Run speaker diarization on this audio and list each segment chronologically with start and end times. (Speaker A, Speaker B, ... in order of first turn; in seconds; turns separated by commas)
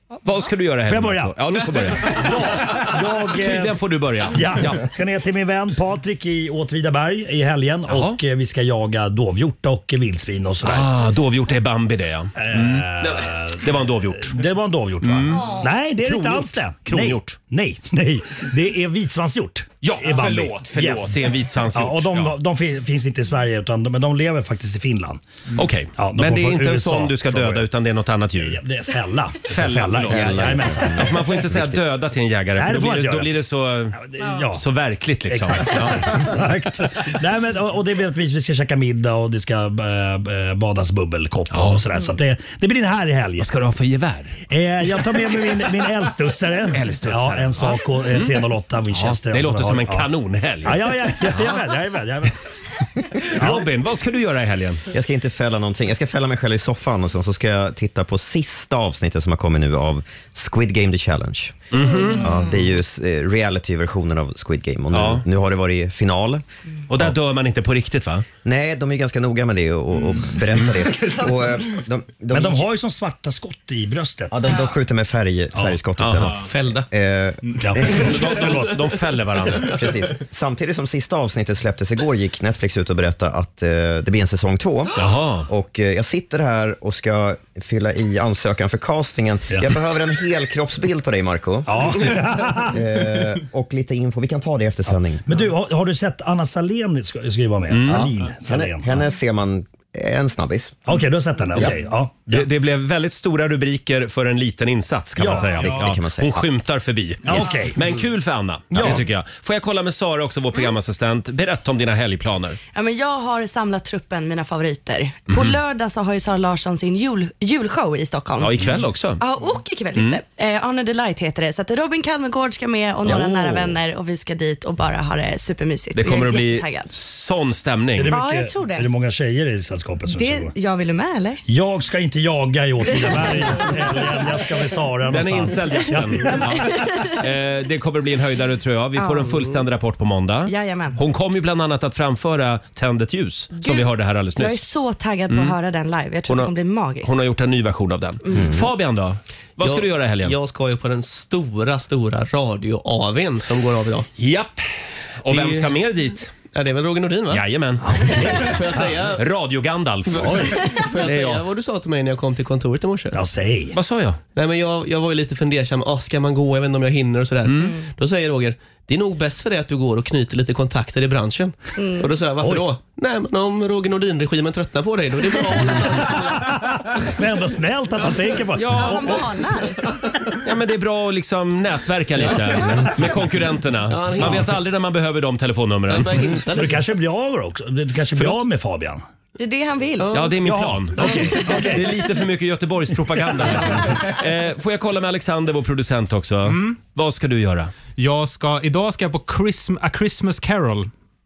Speaker A: 0.2-4.8, Speaker B: 0.9-10.9, Speaker A: 7.9-8.2, Speaker A: 10.6-14.4, Speaker B: 12.3-21.2, Speaker A: 15.0-17.4, Speaker A: 19.8-22.4, Speaker B: 21.7-25.2, Speaker A: 25.6-28.6, Speaker B: 25.9-27.7, Speaker B: 28.4-31.3, Speaker A: 29.4-36.2, Speaker C: 30.1-31.8, Speaker B: 32.5-33.3, Speaker B: 33.9-34.6, Speaker B: 35.3-43.5, Speaker A: 41.5-41.8, Speaker A: 43.4-44.4, Speaker B: 44.5-50.1, Speaker A: 46.7-48.4, Speaker A: 48.9-51.6, Speaker B: 50.6-52.5, Speaker A: 53.2-54.8, Speaker B: 53.3-53.7, Speaker C: 54.9-66.4, Speaker A: 61.7-62.3, Speaker A: 64.9-65.2, Speaker A: 66.9-68.2, Speaker C: 68.4-72.7, Speaker B: 72.3-74.5, Speaker C: 74.3-78.3, Speaker A: 76.0-76.4, Speaker D: 76.4-76.9, Speaker B: 77.6-78.7, Speaker A: 77.8-79.7, Speaker C: 79.6-95.4, Speaker A: 85.0-85.5, Speaker B: 91.7-92.8, Speaker B: 95.2-99.0, Speaker A: 97.7-98.1, Speaker C: 97.9-100.8, Speaker B: 100.8-102.5, Speaker A: 102.3-112.6, Speaker B: 105.2-105.6, Speaker C: 105.6-106.5, Speaker B: 107.2-107.8, Speaker B: 108.7-109.0, Speaker E: 112.7-126.9, Speaker A: 115.3-115.6, Speaker A: 118.4-119.2, Speaker A: 119.9-120.2, Speaker A: 123.0-123.7, Speaker A: 125.9-128.1, Speaker B: 128.0-130.5, Speaker E: 128.1-128.9, Speaker E: 130.1-131.4, Speaker B: 131.5-136.4, Speaker A: 135.1-144.6, Speaker E: 136.2-137.2, Speaker E: 138.9-139.6, Speaker E: 140.4-141.0, Speaker E: 143.5-147.1, Speaker A: 145.3-145.5, Speaker A: 146.3-150.3, Speaker E: 148.3-148.6, Speaker D: 149.6-154.1, Speaker A: 154.2-154.6, Speaker A: 155.2-156.3, Speaker D: 155.3-155.7, Speaker D: 156.5-157.4, Speaker A: 157.3-158.5, Speaker B: 157.8-158.9, Speaker D: 158.3-159.2, Speaker A: 159.1-161.4, Speaker B: 160.2-160.6, Speaker D: 160.7-163.2, Speaker B: 163.1-163.8, Speaker A: 163.7-164.2, Speaker D: 164.3-176.2, Speaker A: 167.4-167.7, Speaker E: 171.8-172.1, Speaker B: 172.4-172.7, Speaker B: 176.0-179.2, Speaker A: 178.5-179.3, Speaker E: 178.7-179.8, Speaker A: 180.4-186.3, Speaker D: 183.9-184.4, Speaker D: 185.9-186.8, Speaker B: 186.5-189.0, Speaker E: 189.3-190.3, Speaker A: 190.1-197.7, Speaker B: 190.4-191.9, Speaker E: 191.0-191.7, Speaker F: 196.4-196.8, Speaker F: 198.0-200.9